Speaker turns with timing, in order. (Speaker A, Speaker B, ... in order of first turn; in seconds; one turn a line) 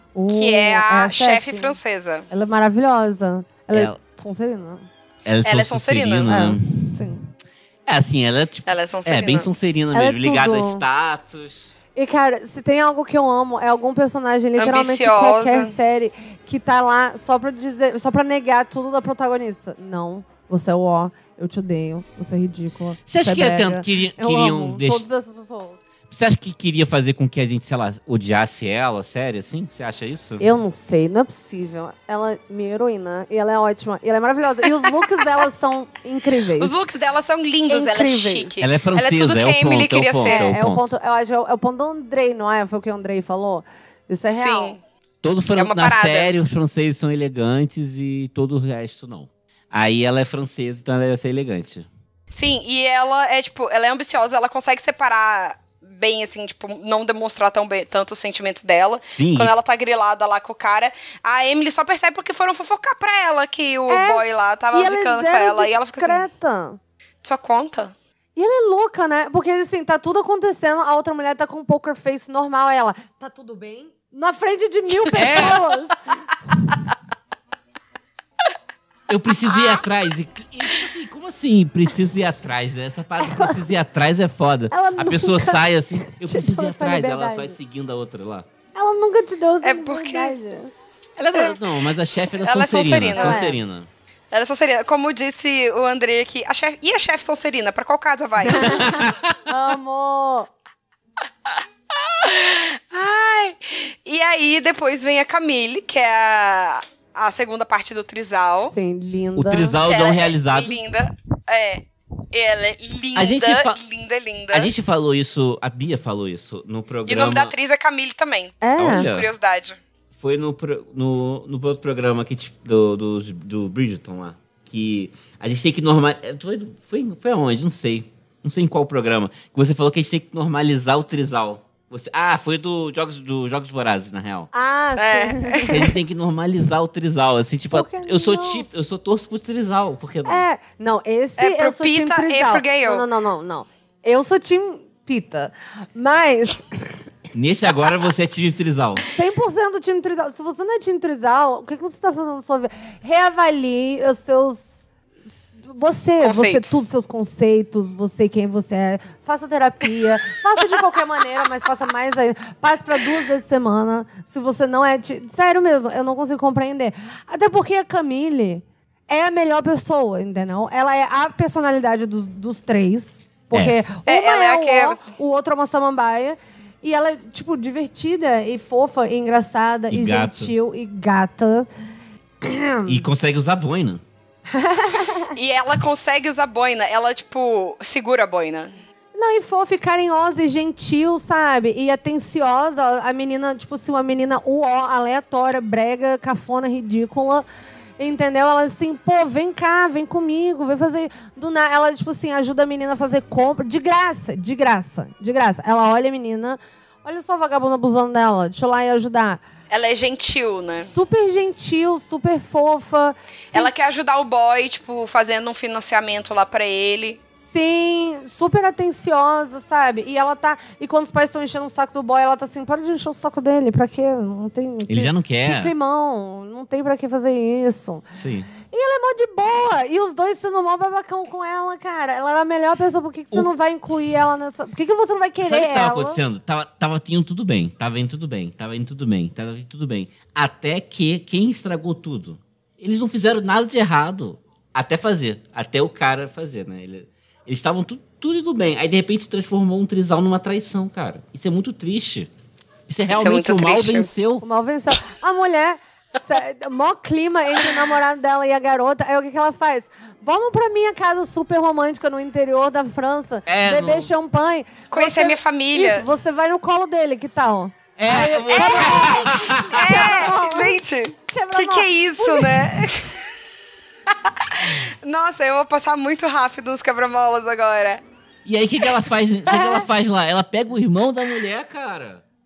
Speaker A: 0.1-1.8
Speaker B: 0.3-2.3
Speaker A: 2.3-4.9
Speaker C: 3.7-4.0
Speaker C: 5.2-7.0
Speaker B: 5.4-6.3
Speaker A: 6.3-7.2
Speaker C: 7.8-11.7
Speaker B: 8.7-9.5
Speaker A: 9.9-10.8
Speaker A: 11.9-25.8
Speaker B: 14.6-15.7
Speaker C: 23.1-25.1
Speaker C: 26.1-30.4
Speaker A: 30.4-36.7
Speaker B: 36.6-40.5
Speaker A: 37.7-38.5
Speaker C: 38.6-40.8
Speaker A: 40.2-44.8
Speaker B: 44.3-44.8
Speaker C: 45.2-51.9
Speaker B: 45.5-46.3
Speaker B: 52.3-66.2
Speaker C: 59.0-59.5
Speaker A: 63.9-66.8
Speaker B: 67.2-67.9
Speaker A: 68.3-76.0
Speaker C: 75.1-75.6
Speaker C: 79.1-88.5
Speaker B: 79.5-79.8
Speaker A: 83.2-83.6
Speaker A: 84.7-87.6
Speaker A: 88.7-90.7
Speaker B: 89.6-90.3
Speaker C: 91.2-93.9
Speaker B: 91.3-91.6
Speaker B: 92.3-93.5
Speaker A: 93.1-93.6
Speaker B: 94.3-98.9
Speaker A: 98.4-100.5
Speaker C: 98.5-99.3
Speaker B: 101.5-108.7
Speaker A: 108.7-109.8
Speaker C: 109.3-110.8
Speaker B: 109.8-114.7
Speaker C: 113.1-113.8
Speaker C: 114.5-117.5
Speaker B: 117.1-119.8
Speaker A: 118.6-119.1
Speaker C: 118.8-119.3
Speaker C: 120.2-134.5
Speaker A: 134.5-135.8
Speaker B: 135.0-135.9
Speaker C: 135.7-140.4
Speaker A: 137.7-138.7
Speaker A: 140.2-146.7
Speaker B: 141.4-143.1
Speaker C: 147.3-149.0
Speaker A: 149.1-181.7
Speaker B: 156.2-156.8
Speaker C: 173.5-173.8
Speaker B: 174.1-175.0
Speaker C: 179.9-180.5
Speaker A: 182.4-183.0
Speaker C: 182.9-184.0
Speaker A: 184.5-185.3
Speaker B: 185.3-188.7
Speaker A: 189.1-197.4
Speaker A: 198.0-209.4
Speaker B: 209.7-210.9
Speaker A: 210.8-213.7
Speaker B: 213.5-217.2
Speaker A: 217.4-228.1
Speaker C: 224.9-225.7
Speaker C: 228.2-228.5
Speaker A: 228.7-236.2
Speaker C: 235.4-252.3
Speaker C: 252.9-254.4
Speaker B: 253.1-254.1
Speaker A: 254.4-272.7
Speaker C: 263.5-264.1
Speaker B: 264.9-266.0
Speaker C: 268.0-270.2
Speaker B: 268.5-273.2
Speaker B: 274.1-278.0
Speaker C: 278.4-282.2
Speaker A: 279.5-279.8